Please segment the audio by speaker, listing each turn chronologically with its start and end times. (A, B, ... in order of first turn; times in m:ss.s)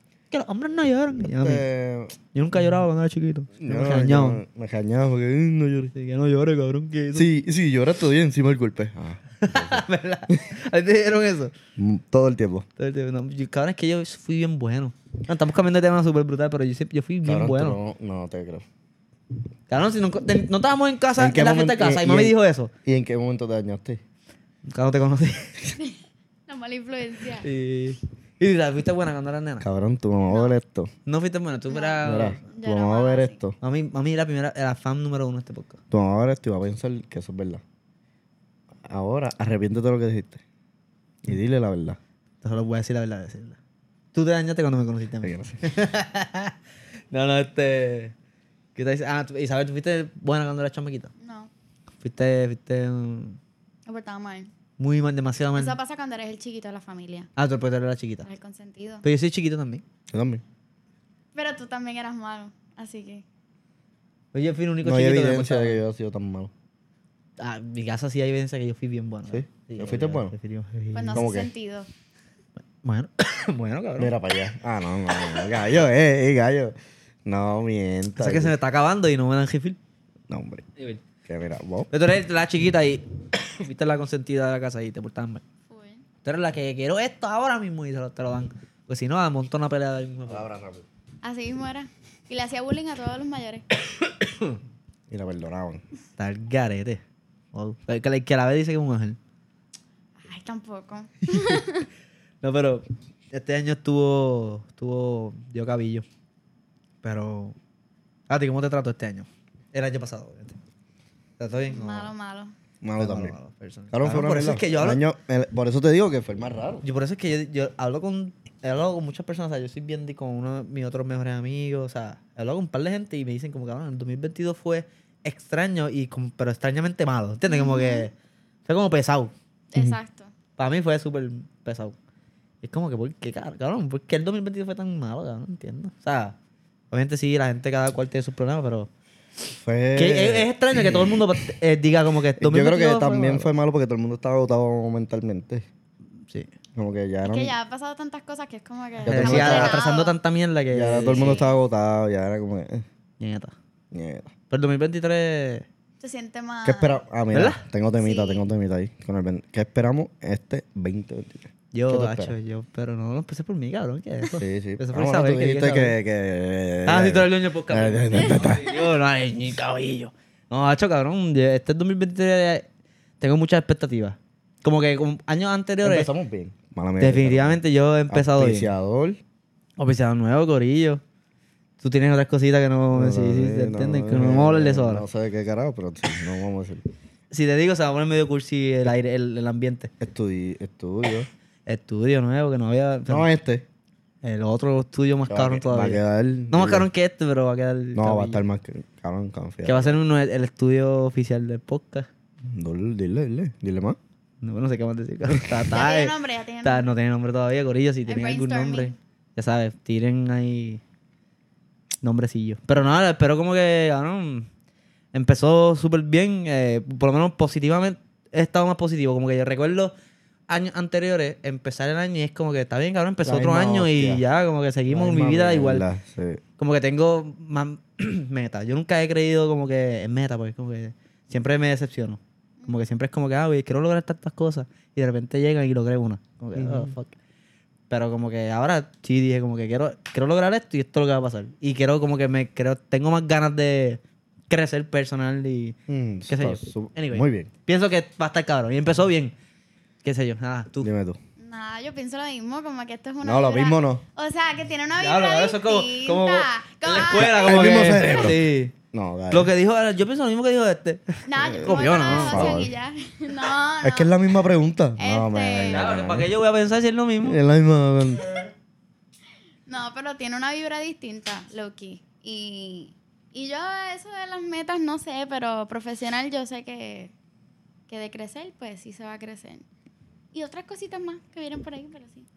0:00.3-0:01.6 A
0:01.2-0:02.2 B
0:02.3-0:04.4 A
0:03.6-0:05.9 B
0:05.9-0:07.3 A
0:07.2-0:10.4 B
0:09.4-0:11.5 A
0:11.8-0:12.7 B
0:12.8-0:17.8 A
0:17.2-0:18.6 B
0:19.7-0:22.7 A
0:21.2-0:24.0 B
0:24.7-0:25.6 A
0:25.7-0:27.5 C
0:27.4-0:29.6 A
0:29.6-0:30.9 B
0:30.3-0:30.6 C
0:31.1-0:32.5 A
0:31.7-0:33.4 C
0:32.0-0:33.6 B
0:33.6-0:35.8 A
0:35.9-0:37.6 B
0:38.8-0:40.4 B
0:41.2-0:42.0 B
0:42.4-0:43.6 A
0:44.1-0:46.6 A
0:45.2-0:45.6 B
0:47.1-0:48.1 A
0:48.8-0:51.1 A
0:51.2-0:51.5 C
0:52.0-0:53.4 A
0:53.9-0:54.5 C
0:54.8-0:55.8 A
0:55.6-0:57.3 C
0:57.4-0:58.3 A
0:58.2-0:59.0 C
0:59.0-0:59.8 A
1:00.1-1:00.4 B
1:01.4-1:03.2 C
1:04.3-1:05.8 A
1:04.8-1:06.5 B
1:07.4-1:11.3 A
1:09.3-1:10.3 B
1:10.9-1:11.9 C
1:11.1-1:11.5 B
1:12.8-1:14.1 A
1:14.0-1:18.6 B
1:18.2-1:19.8 A
1:20.3-1:20.7 B
1:21.2-1:21.9 B
1:21.9-1:25.4 A
1:25.7-1:26.0 C
1:26.2-1:30.5 A
1:30.3-1:30.8 B
1:31.2-1:33.6 C
1:34.1-1:34.6 A
1:35.1-1:35.8 B
1:36.2-1:37.0 A
1:37.5-1:39.2 A
1:40.2-1:41.9 C
1:42.4-1:46.0 A
1:47.0-1:47.6 A
1:48.3-1:50.6 A
1:51.4-1:52.1 A
1:51.7-1:52.5 C
1:52.8-1:53.4 B
1:53.0-1:55.0 A
1:53.9-1:56.8 B
1:56.8-2:08.1 A
2:07.5-2:08.1 C
2:08.7-2:09.3 A
2:09.7-2:10.3 C
2:10.6-2:12.0 A
2:12.6-2:16.4 A
2:16.9-2:18.9 A
2:19.5-2:21.3 B
2:20.0-2:23.5 A
2:22.4-2:25.7 B
2:26.8-2:27.5 B
2:27.2-2:30.2 C
2:29.0-2:29.8 B
2:29.0-2:31.5 A
2:30.7-2:32.8 B
2:33.2-2:33.6 A
2:33.9-2:34.3 B
2:34.5-2:35.7 A
2:36.0-2:37.0 C
2:36.6-2:42.3 B
2:37.3-2:37.6 A
2:38.0-2:38.4 C
2:41.7-2:46.0 A
2:44.3-2:48.8 B
2:46.9-2:52.7 A
2:53.2-2:56.1 A
2:55.8-2:59.2 B
2:57.0-2:58.7 A
2:59.8-3:01.0 A
3:01.8-3:05.0 A
3:02.9-3:06.9 B
3:07.3-3:09.9 A
3:10.0-3:11.3 B
3:11.7-3:13.3 A
3:13.1-3:13.6 B
3:14.2-3:18.4 A
3:15.3-3:16.9 B
3:18.0-3:20.0 B
3:19.6-3:22.1 A
3:22.4-3:24.0 B
3:24.4-3:30.8 A
3:25.7-3:26.9 C
3:28.1-3:29.0 C
3:32.0-3:34.5 A
3:35.1-3:39.9 A
3:40.5-3:45.8 A
3:43.2-3:44.2 B
3:44.9-3:46.4 B
3:46.6-3:57.2 A
3:56.6-3:56.9 B
3:57.9-4:05.8 A
4:05.9-4:07.5 B
4:06.3-4:09.3 A
4:10.0-4:10.9 A
4:10.8-4:11.2 B
4:11.4-4:18.2 C
4:13.2-4:14.0 B
4:15.0-4:18.7 A
4:17.1-4:19.5 B
4:19.3-4:22.6 A
4:21.3-4:24.1 C
4:21.5-4:22.7 B
4:23.8-4:26.3 B
4:25.0-4:25.9 C
4:25.7-4:27.4 A
4:27.2-4:28.4 B
4:29.7-4:37.1 C
4:37.9-4:39.6 C
4:40.3-4:42.3 C